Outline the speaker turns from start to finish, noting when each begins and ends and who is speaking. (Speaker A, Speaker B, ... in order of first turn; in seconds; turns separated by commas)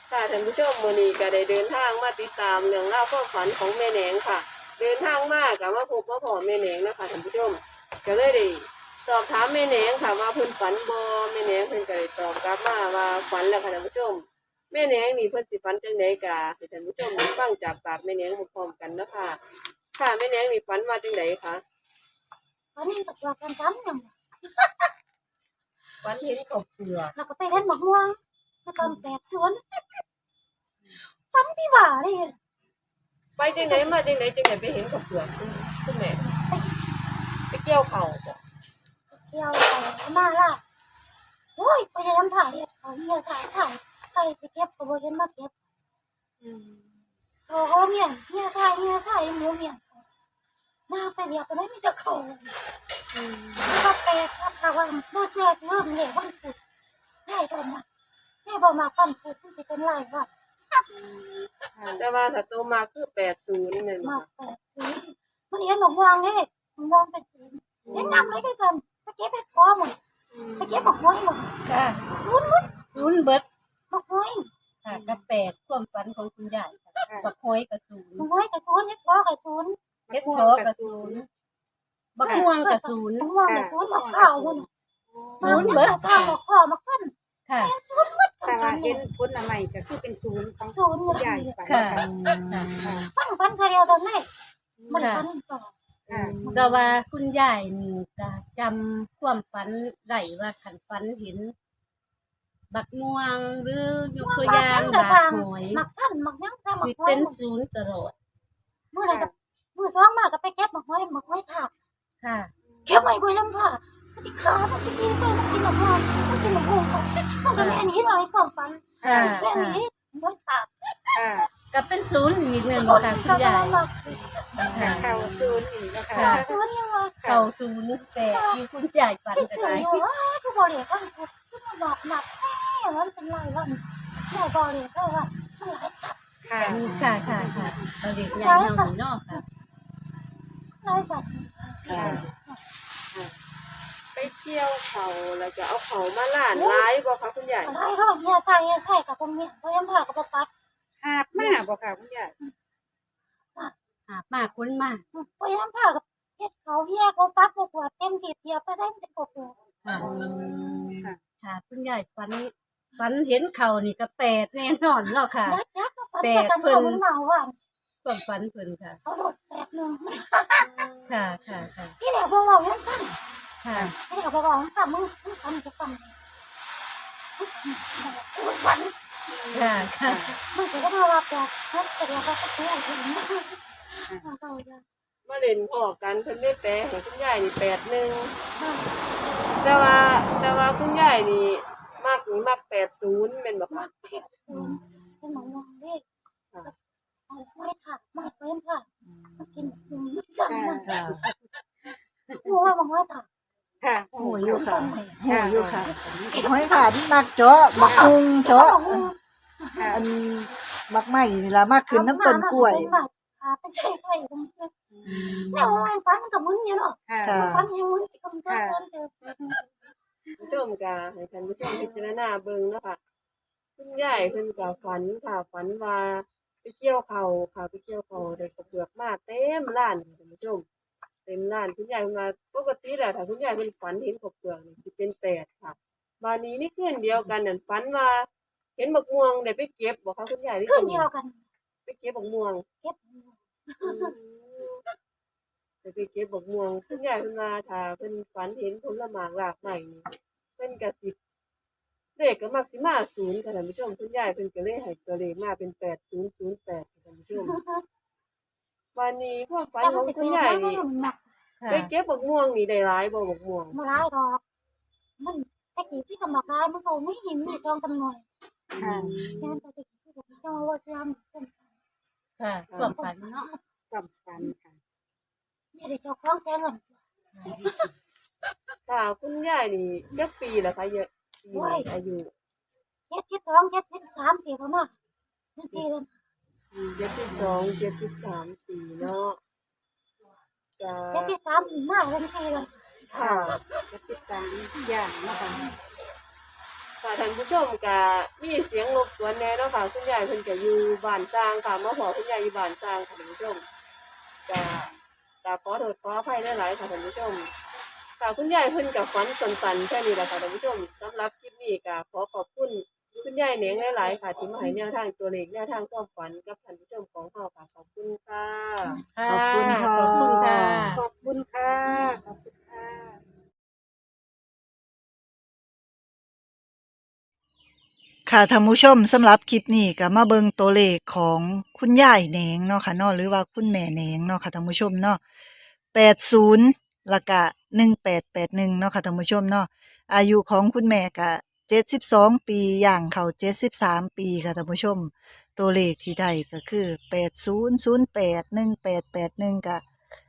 Speaker A: 0.1-19.4, Speaker A: 20.0-21.6, Speaker B: 22.8-24.1, Speaker A: 26.0-27.1, Speaker B: 27.1-29.8, Speaker B: 31.0-32.4, Speaker A: 33.4-36.2, Speaker B: 33.4-33.9, Speaker B: 36.3-36.7, Speaker A: 37.5-38.4, Speaker B: 39.1-40.6, Speaker B: 41.6-45.5, Speaker C: 46.4-47.0, Speaker B: 47.5-50.0, Speaker B: 50.9-52.6, Speaker C: 53.1-53.8, Speaker B: 53.6-56.6, Speaker B: 57.3-57.9, Speaker B: 58.5-60.3, Speaker C: 61.0-62.0, Speaker A: 62.0-64.3, Speaker B: 64.0-70.0, Speaker C: 67.8-68.3, Speaker A: 67.9-68.3, Speaker C: 70.3-71.0, Speaker B: 70.6-71.5, Speaker D: 71.7-72.1, Speaker B: 72.2-73.1, Speaker D: 73.0-73.5, Speaker B: 73.9-74.5, Speaker D: 74.8-78.3, Speaker C: 74.9-75.2, Speaker C: 77.0-77.3, Speaker B: 78.2-79.8, Speaker C: 80.1-81.2, Speaker D: 80.1-81.3, Speaker D: 82.2-83.3, Speaker B: 82.2-84.7, Speaker C: 83.4-85.8, Speaker D: 85.4-86.4, Speaker B: 85.4-89.0, Speaker D: 87.5-87.7, Speaker C: 88.5-92.1, Speaker B: 90.7-92.0, Speaker D: 91.7-92.7, Speaker E: 92.0-93.0, Speaker C: 92.8-93.1, Speaker B: 93.1-94.3, Speaker C: 94.8-95.1, Speaker B: 94.9-95.7, Speaker D: 95.0-95.2, Speaker C: 96.1-96.7, Speaker B: 96.4-97.0, Speaker D: 96.5-101.5, Speaker D: 102.7-105.8, Speaker B: 104.2-107.4, Speaker D: 106.8-108.2, Speaker B: 108.9-111.7, Speaker C: 109.1-109.3, Speaker D: 112.2-112.5, Speaker C: 112.7-113.0, Speaker B: 112.9-120.7, Speaker D: 117.6-117.8, Speaker C: 119.0-119.5, Speaker D: 119.0-119.8, Speaker C: 121.1-121.5, Speaker D: 121.7-123.8, Speaker B: 122.7-125.4, Speaker C: 124.1-126.6, Speaker D: 124.6-125.1, Speaker D: 126.1-126.4, Speaker B: 126.2-127.2, Speaker C: 127.2-127.5, Speaker D: 127.2-130.0, Speaker B: 128.3-128.6, Speaker B: 129.3-136.2, Speaker C: 136.4-137.9, Speaker D: 136.7-139.4, Speaker B: 138.3-139.4, Speaker B: 140.8-142.6, Speaker E: 141.9-142.2, Speaker C: 141.9-142.3, Speaker A: 144.2-147.7, Speaker B: 146.5-146.9, Speaker B: 147.7-150.5, Speaker C: 151.0-152.3, Speaker B: 151.3-151.6, Speaker D: 154.1-155.0, Speaker B: 155.1-159.6, Speaker D: 159.8-160.9, Speaker D: 161.4-165.6, Speaker B: 165.4-167.6, Speaker D: 166.2-167.0, Speaker D: 168.0-169.0, Speaker B: 169.1-170.9, Speaker C: 170.7-171.2, Speaker D: 171.1-172.0, Speaker B: 172.0-173.2, Speaker D: 173.6-173.9, Speaker B: 174.0-176.2, Speaker B: 177.4-178.9, Speaker C: 179.3-180.4, Speaker D: 179.5-180.3, Speaker B: 180.5-184.8, Speaker A: 185.3-188.3, Speaker B: 188.6-188.8, Speaker A: 189.6-193.8, Speaker B: 193.7-196.0, Speaker E: 194.5-195.3, Speaker B: 197.3-198.9, Speaker E: 199.1-200.0, Speaker B: 199.4-201.1, Speaker C: 200.5-201.0, Speaker E: 200.8-201.3, Speaker D: 201.2-202.4, Speaker B: 202.3-203.3, Speaker C: 203.8-204.6, Speaker E: 204.2-209.1, Speaker B: 204.4-205.0, Speaker C: 205.3-205.8, Speaker B: 206.2-206.9, Speaker B: 207.8-210.0, Speaker C: 207.9-208.1, Speaker C: 209.7-210.0, Speaker E: 209.9-212.9, Speaker B: 211.9-219.1, Speaker C: 214.9-215.3, Speaker E: 215.1-215.9, Speaker C: 217.1-217.4, Speaker E: 217.2-217.7, Speaker C: 218.5-218.8, Speaker A: 220.4-223.0, Speaker A: 223.8-230.7, Speaker A: 231.3-238.3, Speaker A: 238.8-241.1, Speaker B: 240.7-241.5, Speaker A: 241.9-242.7, Speaker B: 242.8-244.2, Speaker A: 243.8-244.8, Speaker A: 245.8-251.2, Speaker A: 252.2-257.6, Speaker B: 257.4-257.8, Speaker A: 258.9-260.8, Speaker B: 259.8-261.2, Speaker D: 261.6-261.9, Speaker A: 261.7-263.8, Speaker B: 263.7-264.4, Speaker B: 265.2-268.2, Speaker C: 268.7-269.2, Speaker A: 268.8-269.6, Speaker B: 269.2-271.6, Speaker D: 272.4-273.5, Speaker A: 272.7-273.0, Speaker B: 272.8-273.6, Speaker C: 273.9-274.8, Speaker B: 275.7-276.9, Speaker B: 277.5-277.9, Speaker A: 278.9-282.3, Speaker B: 281.5-281.9, Speaker B: 283.1-284.9, Speaker B: 285.6-286.1, Speaker C: 286.7-287.3, Speaker A: 287.0-289.4, Speaker A: 290.8-291.4, Speaker B: 291.1-292.7, Speaker A: 293.1-293.6, Speaker C: 293.2-295.8, Speaker A: 297.0-303.6, Speaker A: 304.5-304.9, Speaker A: 305.4-307.5, Speaker A: 308.2-319.0, Speaker D: 319.1-321.0, Speaker E: 319.3-320.9, Speaker C: 320.9-323.2, Speaker E: 328.3-335.2, Speaker E: 335.9-349.8